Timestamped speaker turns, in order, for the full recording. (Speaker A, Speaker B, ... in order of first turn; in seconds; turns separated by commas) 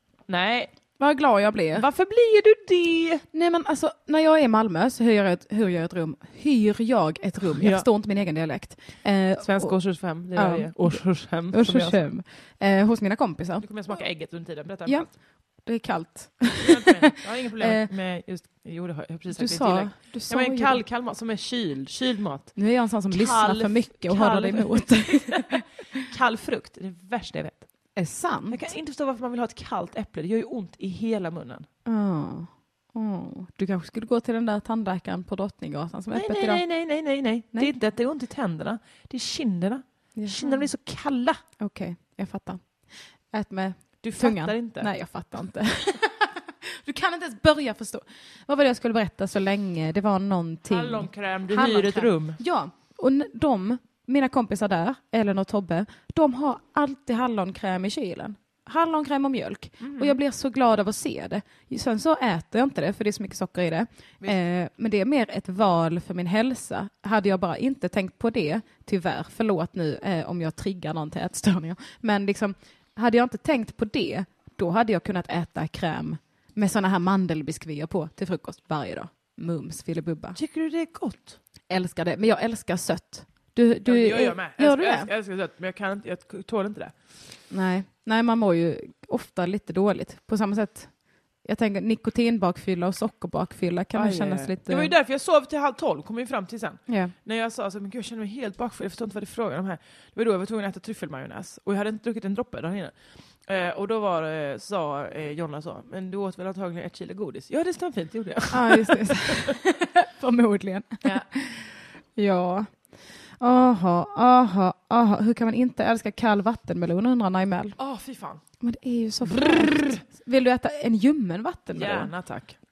Speaker A: 0.3-0.7, Speaker B: 1.0-1.9, Speaker A: 1.7-3.2, Speaker B: 3.3-13.7, Speaker A: 7.6-7.8, Speaker A: 9.4-12.0, Speaker A: 13.6-15.1, Speaker B: 14.8-17.9, Speaker A: 16.6-27.9, Speaker B: 19.3-20.8, Speaker B: 22.5-25.7, Speaker B: 27.9-28.7, Speaker A: 28.5-31.7, Speaker B: 31.8-36.6, Speaker A: 36.1-41.4, Speaker B: 40.1-40.7, Speaker B: 41.6-80.4, Speaker A: 44.0-44.9, Speaker A: 50.7-52.4, Speaker A: 59.8-60.2, Speaker A: 80.3-81.4, Speaker B: 81.7-85.1, Speaker A: 83.8-87.2, Speaker B: 87.5-94.9, Speaker A: 93.9-109.5, Speaker B: 96.9-97.1, Speaker B: 108.5-117.8, Speaker A: 117.8-118.4, Speaker B: 118.6-122.1, Speaker A: 119.2-120.0, Speaker A: 121.7-122.5